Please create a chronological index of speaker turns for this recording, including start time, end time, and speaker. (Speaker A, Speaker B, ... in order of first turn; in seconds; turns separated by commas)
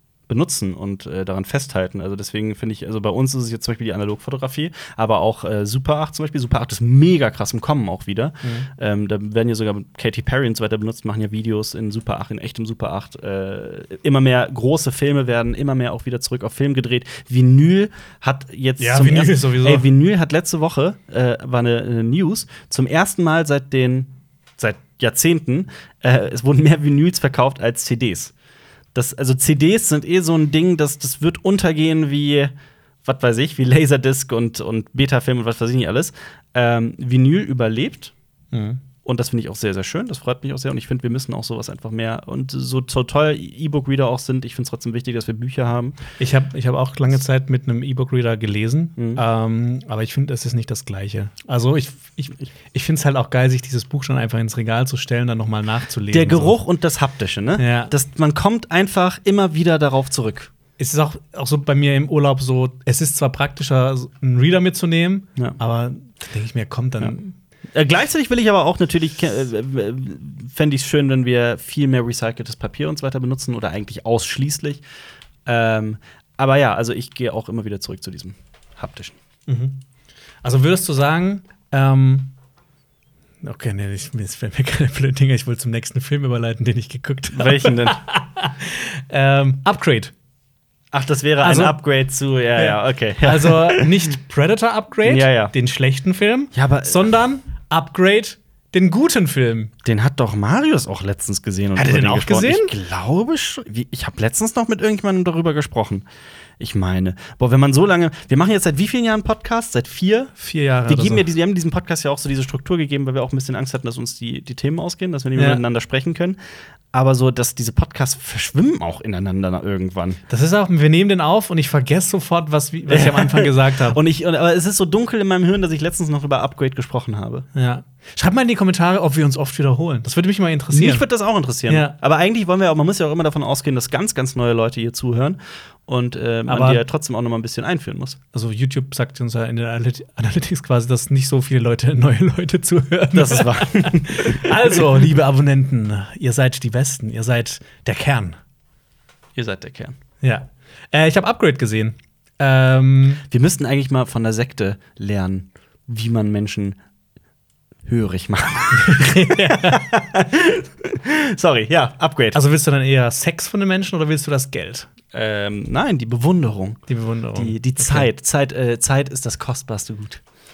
Speaker A: 0.3-28.3, Speaker B: 8.4-8.7, Speaker B: 18.8-19.9, Speaker A: 28.9-32.5, Speaker A: 33.0-38.1, Speaker B: 38.5-38.8, Speaker A: 39.0-46.0, Speaker B: 46.2-56.6, Speaker A: 56.1-60.5, Speaker B: 57.6-57.9, Speaker B: 60.8-67.3, Speaker A: 67.7-74.8, Speaker A: 75.5-79.2, Speaker B: 79.5-79.8, Speaker B: 80.4-82.3, Speaker B: 83.4-90.1, Speaker A: 87.3-88.0, Speaker A: 90.9-94.1, Speaker B: 91.4-91.8, Speaker B: 92.6-99.7, Speaker A: 95.0-95.5, Speaker A: 96.5-97.1, Speaker A: 99.8-106.1, Speaker B: 101.8-102.7, Speaker A: 106.6-110.3, Speaker B: 110.4-111.3, Speaker A: 110.9-116.4, Speaker B: 115.4-115.6, Speaker A: 116.9-120.2, Speaker B: 120.3-124.0, Speaker A: 122.9-127.5, Speaker B: 127.5-131.1, Speaker A: 130.7-138.2, Speaker B: 131.7-132.0, Speaker B: 136.5-136.8, Speaker B: 138.3-148.4, Speaker A: 143.1-145.0, Speaker A: 149.4-150.0, Speaker B: 150.2-153.2, Speaker A: 153.3-156.8, Speaker A: 157.8-162.4, Speaker B: 158.7-160.1, Speaker B: 162.3-164.9, Speaker A: 165.1-166.8, Speaker B: 166.9-168.1, Speaker A: 167.3-170.2